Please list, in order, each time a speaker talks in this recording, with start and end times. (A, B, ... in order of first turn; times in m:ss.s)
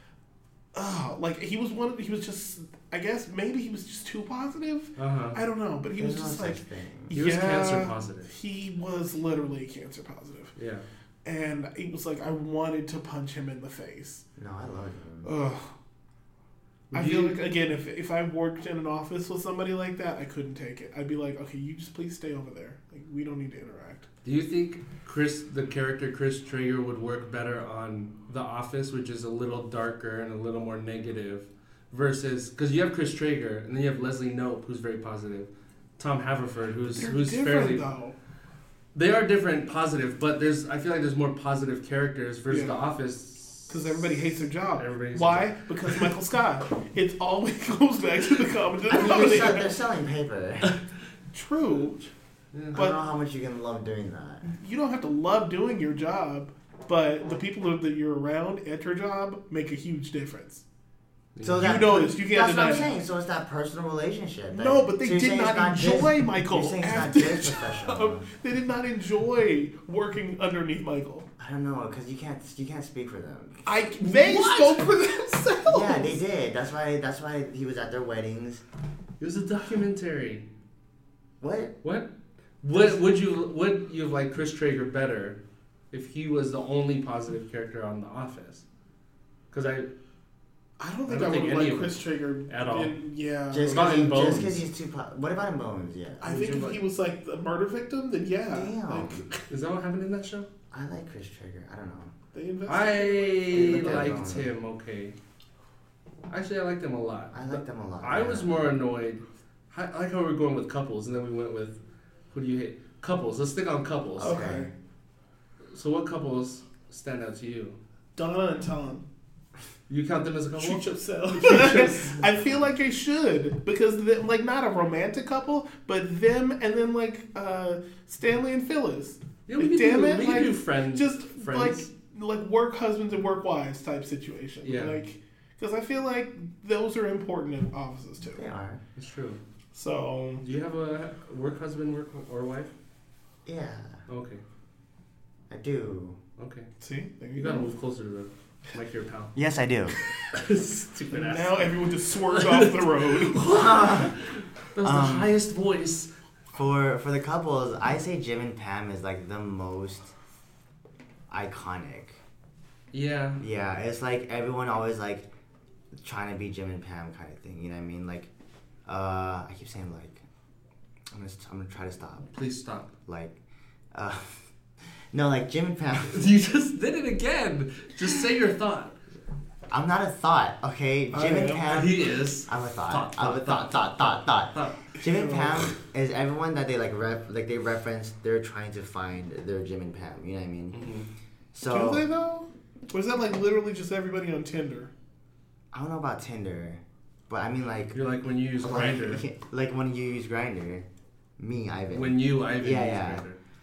0:00.7-0:10.6 A
0:05.0-0:05.4 B
0:06.0-0:07.1 C
0:07.1-0:08.3 B
0:10.6-0:10.8 B
0:11.2-0:14.2 A
0:14.4-0:15.3 C
0:15.2-0:15.7 A
0:16.9-0:17.4 B
0:16.9-0:24.1 A
0:24.2-0:37.8 B
0:36.9-0:38.2 A
0:39.0-0:46.0 B
0:42.5-0:42.8 A
0:43.7-0:49.7 A
0:48.9-0:50.8 C
0:51.3-0:52.0 A
0:52.5-0:52.8 B
0:52.7-0:54.5 C
0:54.5-1:00.6 A
1:01.4-1:01.7 B
1:01.4-1:08.3 C
1:01.6-1:02.9 A
1:04.5-1:11.3 A
1:11.4-1:13.6 C
1:13.6-1:16.2 A
1:14.0-1:14.9 B
1:15.7-1:18.6 C
1:19.2-1:20.5 B
1:21.4-1:21.8 C
1:21.8-1:22.1 B
1:22.6-1:25.4 B
1:25.9-1:28.6 B
1:29.5-1:29.9 B
1:30.8-1:34.4 A
1:31.1-1:32.9 B
1:33.5-1:36.5 C
1:33.7-1:34.6 B
1:36.2-1:39.4 A
1:36.2-1:36.8 B
1:38.5-1:39.2 C
1:39.5-1:40.5 B
1:40.7-1:42.1 C
1:42.3-1:44.1 A
1:42.7-1:45.2 B
1:43.5-1:44.5 C
1:46.3-1:51.8 B
1:47.3-1:48.7 C
1:52.3-1:54.4 B
1:54.2-1:54.7 C
1:54.2-1:54.7 A
1:55.7-1:57.8 B
1:58.2-1:59.0 A
1:59.9-2:02.2 B
2:00.6-2:18.4 A
2:09.5-2:11.9 B
2:14.6-2:15.0 B
2:18.3-2:18.8 C
2:19.0-2:19.4 B
2:19.7-2:20.4 A
2:20.4-2:22.7 B
2:23.4-2:24.0 C
2:24.1-2:24.4 B
2:25.5-2:26.2 C
2:26.4-2:26.7 B
2:26.8-2:27.7 A
2:27.4-2:29.3 B
2:29.4-2:30.0 C
2:30.3-2:36.1 B
2:31.1-2:33.5 A
2:33.5-2:34.2 C
2:34.8-2:35.3 C
2:36.5-2:40.1 C
2:41.3-2:42.2 C
2:42.9-2:43.4 B
2:43.4-2:45.3 C
2:46.0-2:48.3 C
2:48.9-2:50.2 C
2:51.1-2:52.3 C
2:52.3-2:52.9 B
2:53.1-2:53.4 C
2:53.9-2:54.5 C
2:55.1-2:56.2 C
2:56.1-2:59.0 B
2:59.7-3:10.8 C
3:01.1-3:01.7 A
3:01.7-3:04.8 B
3:05.0-3:05.7 A
3:10.7-3:11.1 B
3:11.5-3:12.0 C
3:11.6-3:14.9 A
3:15.7-3:18.0 C
3:17.9-3:19.2 B
3:18.6-3:20.9 C
3:21.4-3:23.2 C
3:21.9-3:23.4 B